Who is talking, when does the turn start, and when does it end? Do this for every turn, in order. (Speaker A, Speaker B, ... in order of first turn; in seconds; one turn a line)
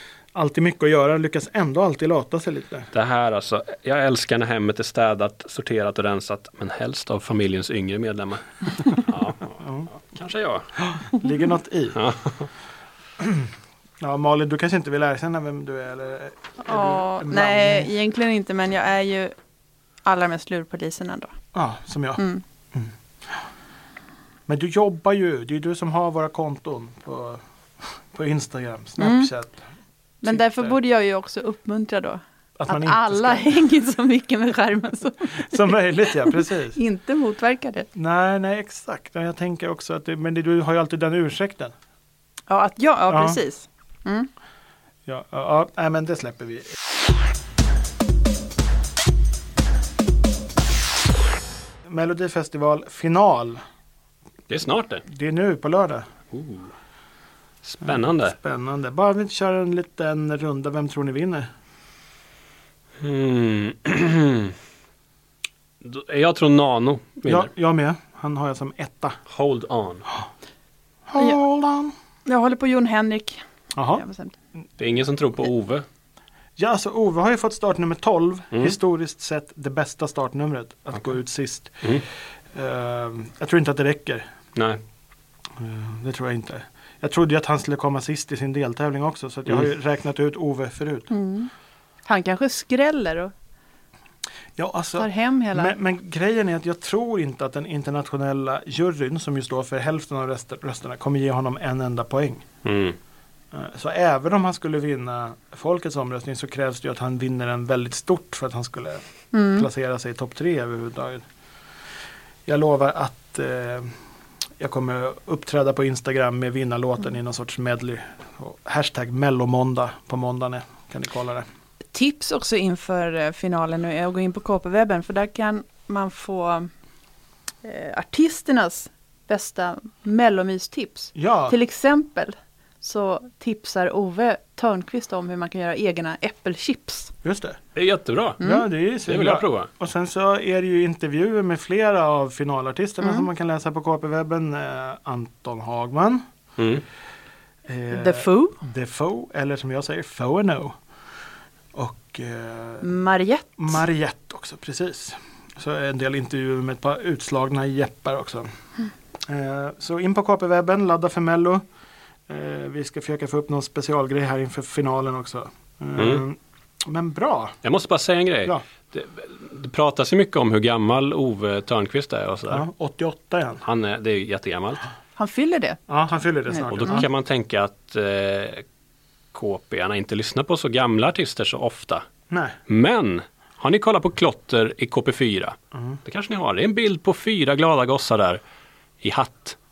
Speaker A: 0.3-2.9
Speaker B: 2.9-10.7
Speaker A: 9.6-9.9
Speaker A: 10.8-12.0
Speaker B: 11.9-12.5
Speaker A: 13.2-13.5
Speaker A: 14.0-17.9
Speaker C: 16.6-19.3
Speaker C: 20.0-21.4
Speaker A: 21.5-22.9
Speaker C: 22.2-22.4
Speaker A: 24.5-29.6
Speaker C: 29.0-29.3
Speaker C: 30.2-35.7
Speaker A: 30.2-30.8
Speaker A: 32.6-33.5
Speaker A: 35.4-36.8
Speaker C: 36.3-37.9
Speaker A: 38.0-41.7
Speaker C: 42.5-44.3
Speaker A: 43.1-43.4
Speaker A: 45.1-46.8
Speaker A: 51.9-53.6
Speaker B: 54.5-55.0
Speaker A: 55.0-56.1
Speaker B: 56.3-56.7
Speaker B: 57.6-58.4
Speaker A: 57.9-61.5
Speaker B: 63.0-64.6
Speaker B: 65.8-67.5
Speaker A: 67.2-69.2
Speaker B: 69.3-70.1
Speaker A: 71.1-71.9
Speaker C: 72.2-73.4
Speaker A: 73.8-74.0
Speaker C: 73.9-74.3
Speaker B: 74.8-75.8
Speaker A: 76.6-81.9
Speaker A: 82.5-84.3
Speaker B: 84.5-84.8
Speaker A: 85.6-91.1
Speaker C: 91.1-91.5
Speaker C: 92.0-93.3
Speaker A: 94.6-102.5
Speaker C: 95.0-95.8
Speaker B: 102.6-103.0
Speaker A: 103.5-111.2
Speaker C: 109.3-109.7
Speaker A: 112.5-113.9
Speaker A: 114.6-121.5
Speaker C: 121.9-126.7
Speaker C: 127.6-137.1
Speaker A: 131.2-131.6
Speaker A: 137.2-137.6
Speaker B: 137.8-138.4
Speaker C: 138.4-138.7
Speaker A: 138.4-146.2
Speaker B: 139.1-139.7
Speaker C: 143.0-143.3
Speaker B: 146.6-146.8
Speaker A: 147.7-150.8
Speaker C: 147.9-148.6
Speaker A: 151.7-152.9
Speaker C: 152.8-153.8
Speaker A: 153.6-158.5
Speaker A: 159.2-161.6
Speaker A: 162.3-167.6
Speaker B: 166.0-166.2
Speaker B: 167.6-172.6
Speaker A: 172.5-173.6
Speaker B: 173.6-174.8
Speaker C: 175.2-175.8
Speaker A: 175.9-177.1
Speaker C: 176.5-177.0
Speaker B: 176.7-178.6
Speaker B: 179.3-182.1
Speaker A: 182.3-182.6
Speaker B: 182.7-188.4
Speaker B: 189.0-189.6